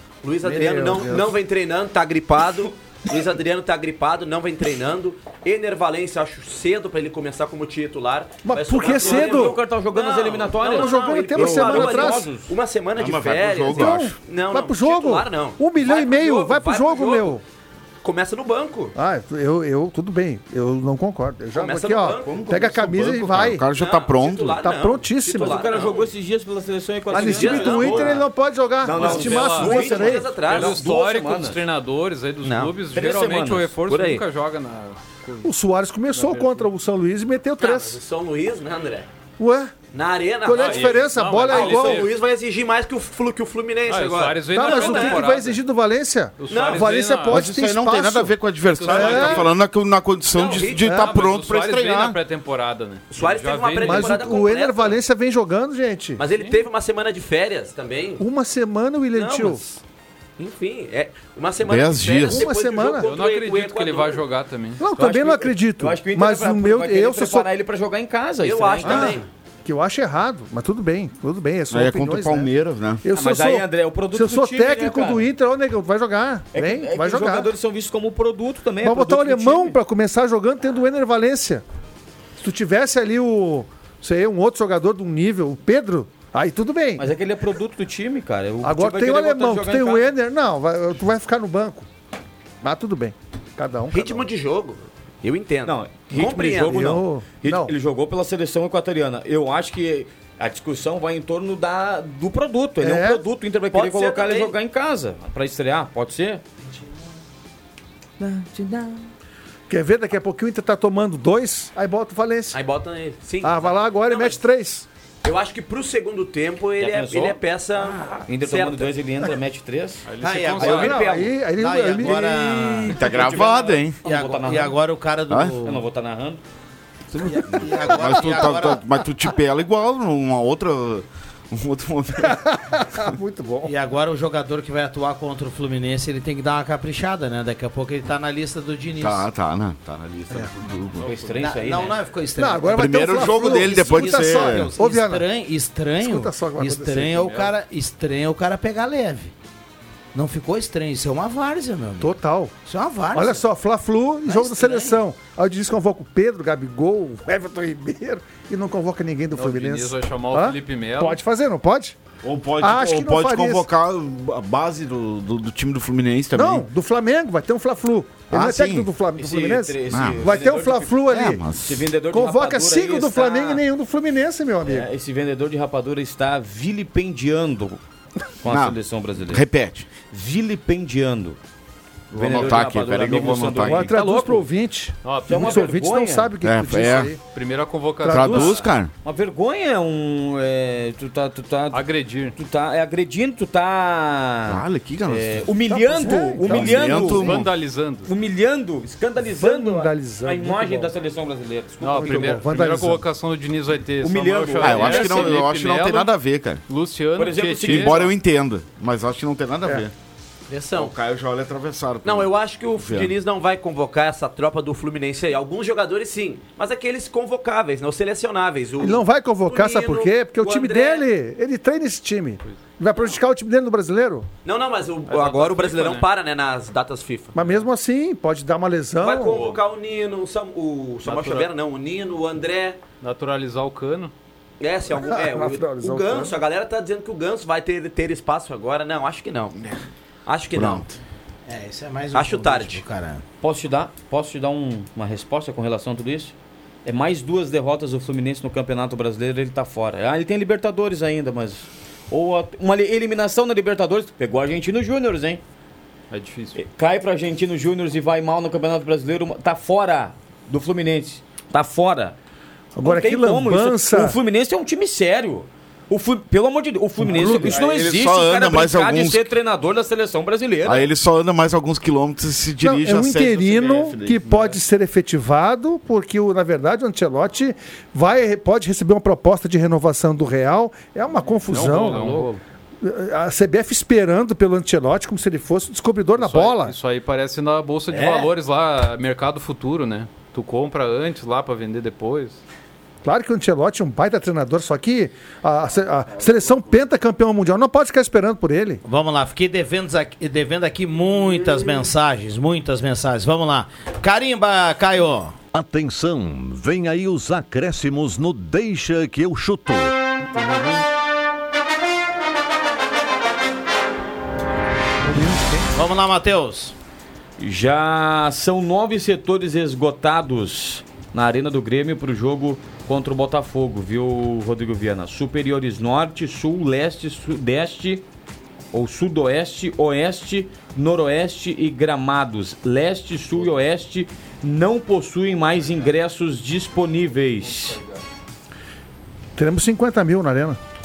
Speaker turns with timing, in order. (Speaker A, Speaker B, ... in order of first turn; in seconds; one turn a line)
Speaker A: 0.2-17.4
Speaker B: 0.4-1.4
Speaker B: 8.4-9.6
Speaker C: 8.8-12.5
Speaker B: 10.7-12.3
Speaker D: 12.9-14.1
Speaker B: 13.7-17.4
Speaker A: 18.0-18.9
Speaker B: 18.9-23.6
Speaker A: 21.5-22.4
Speaker D: 22.2-24.6
Speaker A: 23.7-26.1
Speaker B: 24.6-25.7
Speaker C: 25.3-28.3
Speaker A: 27.1-28.2
Speaker B: 27.1-30.4
Speaker C: 28.8-31.6
Speaker E: 28.9-35.5
Speaker A: 28.9-30.9
Speaker A: 32.4-32.7
Speaker C: 32.9-34.0
Speaker A: 33.9-34.2
Speaker B: 35.4-38.0
Speaker E: 36.1-36.7
Speaker A: 37.6-39.1
Speaker B: 39.4-39.7
Speaker A: 39.9-45.3
Speaker B: 40.4-42.1
Speaker E: 40.5-42.1
Speaker E: 43.9-45.6
Speaker B: 44.5-48.4
Speaker E: 46.4-47.5
Speaker A: 46.5-47.0
Speaker D: 47.3-52.2
Speaker E: 48.7-49.5
Speaker A: 48.8-49.5
Speaker B: 48.9-49.5
Speaker A: 50.3-50.9
Speaker B: 50.8-51.1
Speaker E: 50.9-54.1
Speaker A: 53.1-55.0
Speaker B: 53.8-56.2
Speaker A: 56.2-58.2
Speaker B: 58.2-59.6
Speaker A: 59.1-59.8
Speaker A: 60.4-64.2
Speaker D: 61.6-62.4
Speaker B: 62.2-63.1
Speaker E: 63.0-64.8
Speaker B: 64.8-67.5
Speaker C: 64.9-69.2
Speaker A: 68.4-69.3
Speaker B: 68.8-72.5
Speaker D: 71.7-73.0
Speaker B: 73.0-77.5
Speaker C: 73.2-75.2
Speaker C: 76.5-79.7
Speaker B: 78.8-81.6
Speaker B: 82.4-87.0
Speaker C: 87.0-90.1
Speaker B: 88.6-91.9
Speaker B: 92.6-94.3
Speaker A: 93.9-96.9
Speaker C: 95.7-106.4
Speaker B: 96.6-97.7
Speaker B: 102.8-103.2
Speaker A: 103.7-104.5
Speaker C: 108.2-109.0
Speaker B: 109.7-112.6
Speaker A: 112.5-114.4
Speaker B: 113.4-114.9
Speaker A: 115.2-118.9
Speaker C: 116.8-117.4
Speaker C: 118.3-121.3
Speaker E: 120.0-121.0
Speaker F: 120.2-122.9
Speaker B: 120.6-123.1
Speaker C: 122.9-124.8
Speaker D: 122.9-124.0
Speaker F: 124.0-125.8
Speaker D: 125.3-125.5
Speaker C: 125.6-126.4
Speaker F: 127.2-128.9
Speaker D: 127.2-132.8
Speaker B: 132.2-133.7
Speaker F: 133.6-139.3
Speaker D: 139.0-141.1
Speaker C: 141.0-142.0
Speaker E: 141.0-141.4
Speaker F: 141.3-149.3
Speaker B: 142.4-145.3
Speaker D: 142.7-144.7
Speaker B: 146.0-147.2
Speaker E: 147.1-147.5
Speaker F: 150.1-153.4
Speaker B: 152.0-152.5
Speaker B: 153.1-162.0
Speaker F: 154.3-155.0
Speaker E: 159.3-161.2
Speaker D: 162.2-166.6
Speaker B: 162.6-163.7
Speaker B: 166.3-171.4
Speaker D: 168.3-168.9
Speaker C: 169.1-171.0
Speaker D: 169.9-170.4
Speaker D: 171.0-171.9
Speaker C: 171.5-173.6
Speaker B: 172.1-174.9
Speaker C: 174.6-177.8
Speaker C: 178.4-179.4
Speaker D: 178.5-179.9
Speaker C: 180.1-181.4
Speaker D: 182.1-183.9
Speaker C: 182.1-184.5
Speaker B: 183.6-187.2
Speaker E: 185.0-185.8
Speaker C: 185.3-186.3
Speaker D: 186.4-187.2
Speaker E: 187.3-188.8
Speaker B: 188.0-188.6
Speaker D: 188.1-188.9
Speaker C: 189.0-197.3
Speaker E: 191.7-192.4
Speaker D: 194.5-197.5
Speaker B: 195.7-197.4
Speaker E: 197.1-198.1
Speaker C: 198.1-202.3
Speaker B: 199.2-200.9
Speaker B: 201.8-203.0
Speaker E: 201.8-206.1
Speaker C: 204.0-205.3
Speaker D: 204.6-206.6
Speaker E: 206.7-208.1
Speaker C: 207.2-208.1
Speaker D: 207.6-209.9
Speaker A: 210.5-210.9
Speaker D: 210.7-213.1
Speaker A: 212.0-221.1
Speaker B: 218.8-224.3
Speaker A: 224.4-227.3
Speaker E: 225.1-226.1
Speaker B: 227.3-229.4
Speaker E: 227.3-227.6
Speaker A: 229.0-232.8
Speaker E: 229.2-229.6
Speaker E: 231.0-231.5
Speaker E: 233.0-234.1
Speaker A: 234.6-239.6
Speaker B: 234.9-236.4
Speaker A: 240.2-240.9
Speaker D: 240.5-241.0
Speaker F: 241.5-243.2
Speaker A: 242.1-242.8
Speaker C: 243.4-246.3
Speaker C: 246.8-255.4
Speaker E: 256.1-256.6
Speaker C: 256.5-262.1
Speaker B: 262.8-264.2
Speaker C: 262.8-270.9
Speaker B: 267.0-267.6
Speaker D: 267.0-269.3
Speaker D: 270.6-274.2
Speaker B: 272.6-282.3
Speaker E: 274.2-274.5
Speaker E: 281.5-282.4
Speaker B: 282.8-286.8
Speaker E: 286.2-292.4
Speaker F: 287.9-288.3
Speaker B: 293.0-298.8
Speaker F: 298.8-305.4
Speaker G: 305.5-309.9
Speaker B: 315.0-315.7
Speaker F: 315.7-316.7
Speaker C: 317.4-328.0
Speaker C: 328.7-337.8
Speaker B: 339.4-340.6